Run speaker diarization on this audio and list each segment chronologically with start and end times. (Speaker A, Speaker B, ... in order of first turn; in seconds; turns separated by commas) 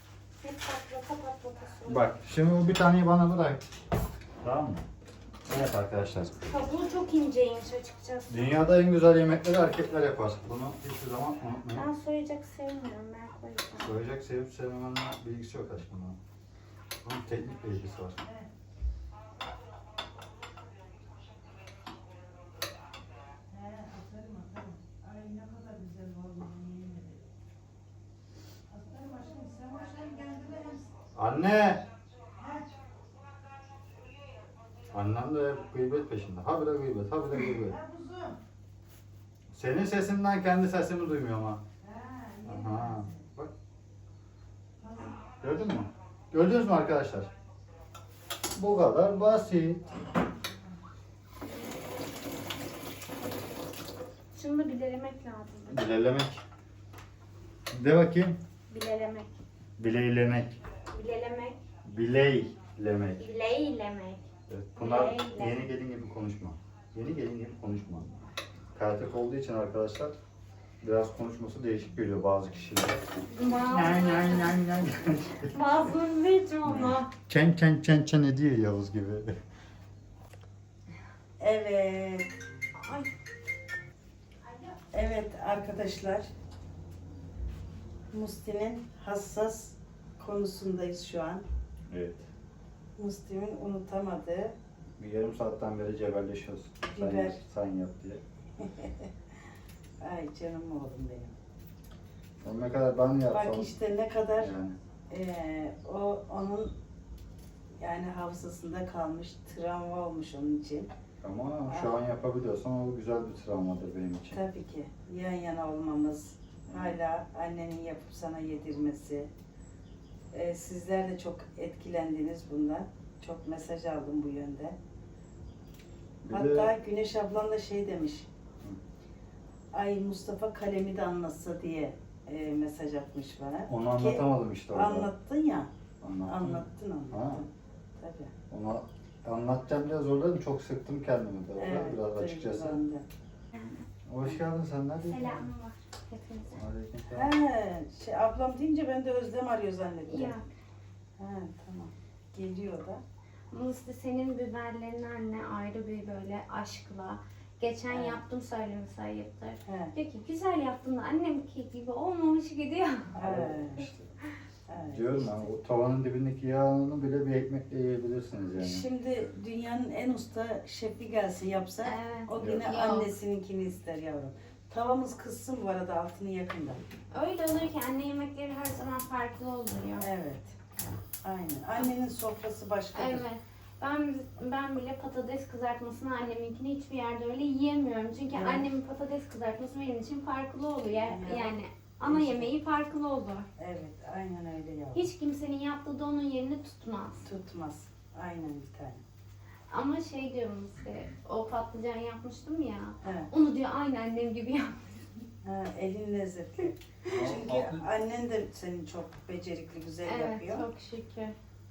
Speaker A: 0.4-2.1, Speaker B: 1.9-3.6, Speaker B: 4.4-4.8, Speaker B: 5.5-6.3, Speaker A: 6.4-8.3, Speaker B: 8.3-11.9, Speaker A: 11.7-13.9, Speaker B: 13.8-16.2, Speaker B: 17.0-18.2, Speaker C: 23.5-27.2, Speaker C: 28.7-30.9, Speaker B: 31.1-31.9, Speaker C: 32.4-32.7, Speaker B: 34.9-37.8, Speaker C: 37.7-38.4, Speaker B: 39.5-41.6, Speaker C: 41.8-43.1, Speaker B: 42.5-43.5, Speaker C: 44.8-45.1, Speaker B: 45.4-47.3, Speaker B: 48.6-49.9, Speaker A: 54.3-55.9, Speaker B: 55.7-56.4, Speaker B: 57.7-58.4, Speaker A: 58.7-59.3, Speaker B: 59.8-60.6, Speaker A: 60.9-61.6, Speaker B: 61.9-63.2, Speaker A: 63.2-64.2, Speaker B: 64.5-68.1, Speaker A: 64.8-65.7, Speaker B: 68.8-70.1, Speaker B: 70.8-75.5, Speaker A: 73.3-74.5, Speaker A: 75.5-77.1, Speaker B: 76.7-79.3, Speaker C: 81.4-82.3, Speaker A: 82.8-83.1, Speaker C: 84.9-86.3, Speaker C: 88.1-91.4, Speaker B: 91.9-92.3, Speaker C: 93.0-94.6, Speaker B: 95.0-98.2, Speaker C: 96.9-97.4, Speaker C: 98.6-99.1, Speaker C: 100.0-101.3, Speaker B: 102.4-103.7, Speaker C: 103.3-104.5, Speaker B: 104.4-104.8, Speaker C: 105.1-106.7, Speaker C: 107.8-110.9, Speaker B: 111.2-114.4, Speaker C: 114.3-119.3, Speaker B: 116.7-117.0, Speaker C: 120.3-124.8, Speaker B: 126.2-126.7, Speaker C: 126.3-128.3, Speaker C: 129.7-135.7, Speaker B: 133.7-135.1, Speaker B: 136.0-137.4, Speaker C: 136.3-138.3, Speaker B: 138.5-142.8, Speaker C: 141.6-143.1, Speaker A: 143.5-143.8, Speaker B: 144.1-145.5, Speaker A: 145.0-146.6, Speaker B: 146.6-147.3, Speaker C: 147.1-150.3, Speaker A: 150.1-150.5, Speaker C: 151.2-153.0, Speaker A: 153.5-163.2, Speaker C: 157.9-158.2, Speaker C: 159.7-159.9, Speaker C: 163.2-163.9, Speaker B: 163.2-164.1, Speaker C: 164.7-165.4, Speaker B: 164.9-168.8, Speaker C: 168.6-176.8, Speaker A: 171.8-173.1, Speaker B: 172.4-172.7, Speaker A: 177.1-180.1, Speaker C: 180.0-180.5, Speaker C: 181.2-183.2, Speaker A: 182.9-193.5, Speaker C: 188.3-188.7, Speaker C: 191.0-192.5, Speaker C: 193.6-195.1, Speaker A: 194.9-197.3, Speaker C: 197.2-199.0, Speaker A: 199.7-205.2, Speaker C: 203.0-203.3, Speaker C: 205.4-210.7, Speaker B: 207.1-207.8, Speaker A: 210.1-211.3